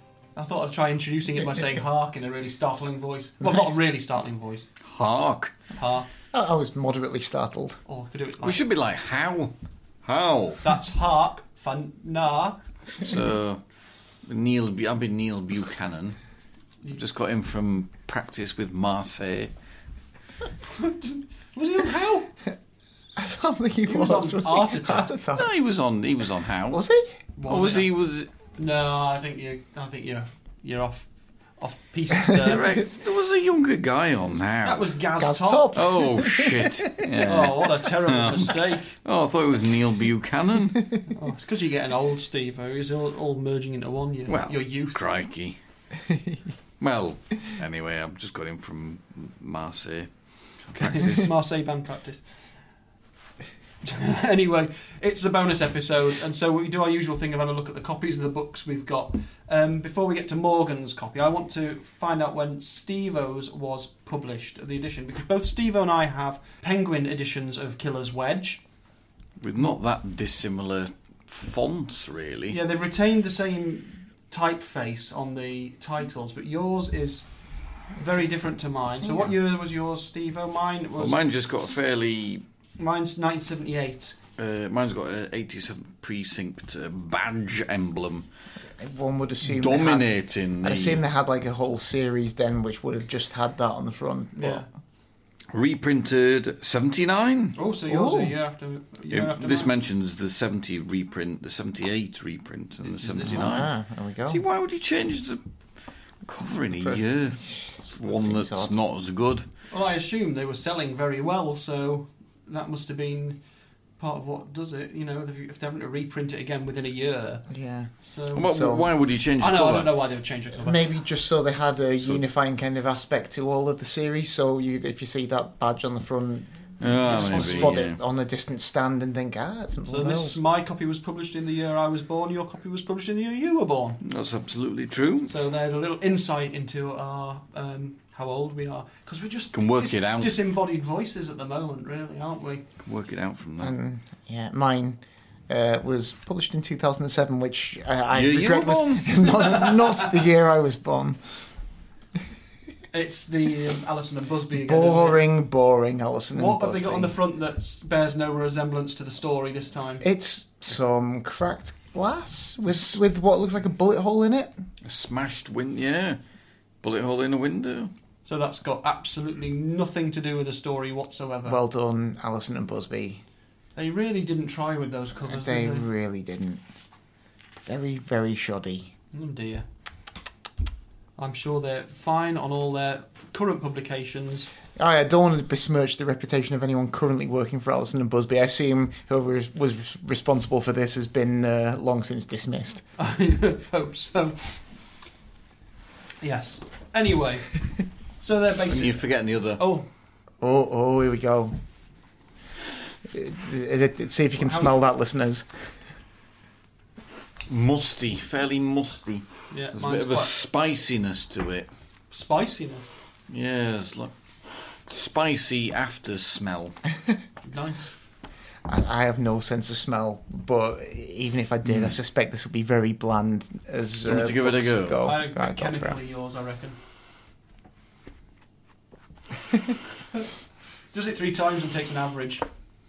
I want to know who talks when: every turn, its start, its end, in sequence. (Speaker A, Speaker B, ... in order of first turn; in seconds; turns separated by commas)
Speaker A: 0.3-4.7, Speaker B: 4.8-5.5, Speaker A: 5.7-6.1, Speaker C: 6.3-7.8, Speaker A: 7.9-8.6, Speaker B: 8.4-10.7, Speaker A: 10.6-12.6, Speaker B: 12.9-13.6, Speaker B: 14.3-16.2, Speaker B: 16.9-19.5, Speaker A: 20.6-22.3, Speaker C: 23.2-25.5, Speaker A: 23.9-25.1, Speaker B: 25.4-26.8, Speaker C: 26.7-27.1, Speaker A: 27.4-27.9, Speaker B: 27.5-28.3, Speaker A: 28.6-32.7, Speaker B: 32.4-34.9, Speaker A: 34.6-35.7, Speaker C: 35.2-36.9, Speaker B: 35.7-40.8, Speaker A: 37.2-39.0, Speaker A: 41.1-45.1, Speaker B: 44.3-45.6, Speaker C: 46.1-46.4, Speaker B: 46.8-50.1, Speaker A: 50.7-52.3, Speaker A: 53.8-68.6, Speaker B: 69.4-72.6, Speaker A: 72.5-77.3, Speaker A: 78.0-81.3, Speaker B: 81.0-82.4, Speaker A: 82.8-84.2, Speaker B: 84.4-88.3, Speaker C: 88.8-94.7, Speaker B: 89.4-91.0, Speaker A: 94.3-94.7, Speaker B: 95.5-97.6, Speaker A: 97.6-99.7, Speaker C: 97.9-98.4, Speaker B: 99.1-103.7, Speaker A: 102.8-103.7, Speaker C: 103.3-104.4, Speaker B: 104.3-105.4, Speaker B: 106.3-109.5, Speaker C: 106.8-108.8, Speaker A: 109.7-113.4, Speaker A: 114.0-117.5, Speaker C: 117.5-118.9, Speaker A: 118.0-118.5, Speaker B: 118.3-119.9, Speaker A: 119.4-120.9, Speaker C: 120.6-130.4, Speaker B: 126.8-128.0, Speaker A: 127.0-127.8, Speaker A: 129.9-134.0, Speaker B: 134.0-135.3, Speaker A: 135.2-142.7, Speaker B: 139.5-140.4, Speaker B: 142.8-143.7, Speaker C: 143.6-151.2, Speaker B: 148.1-149.4, Speaker A: 149.3-150.2, Speaker A: 152.9-155.2, Speaker C: 154.5-157.2, Speaker A: 156.3-160.1, Speaker C: 160.0-164.5, Speaker B: 164.8-166.2, Speaker B: 166.8-167.9, Speaker A: 168.2-171.6, Speaker C: 171.4-173.2, Speaker A: 173.8-175.9, Speaker C: 175.3-176.6, Speaker C: 177.6-178.9, Speaker A: 179.1-179.7, Speaker A: 181.2-184.5, Speaker C: 184.8-192.8, Speaker A: 193.0-194.6, Speaker A: 196.2-199.9, Speaker B: 198.7-199.6, Speaker C: 200.4-201.5, Speaker C: 203.1-205.6, Speaker A: 204.4-204.8, Speaker B: 207.5-211.7, Speaker A: 209.5-210.3, Speaker A: 212.1-212.9, Speaker B: 213.3-214.1, Speaker B: 214.9-216.8, Speaker A: 217.4-217.9, Speaker C: 218.7-226.0, Speaker B: 221.7-221.9, Speaker B: 224.1-225.1, Speaker A: 225.0-226.8, Speaker A: 230.9-232.4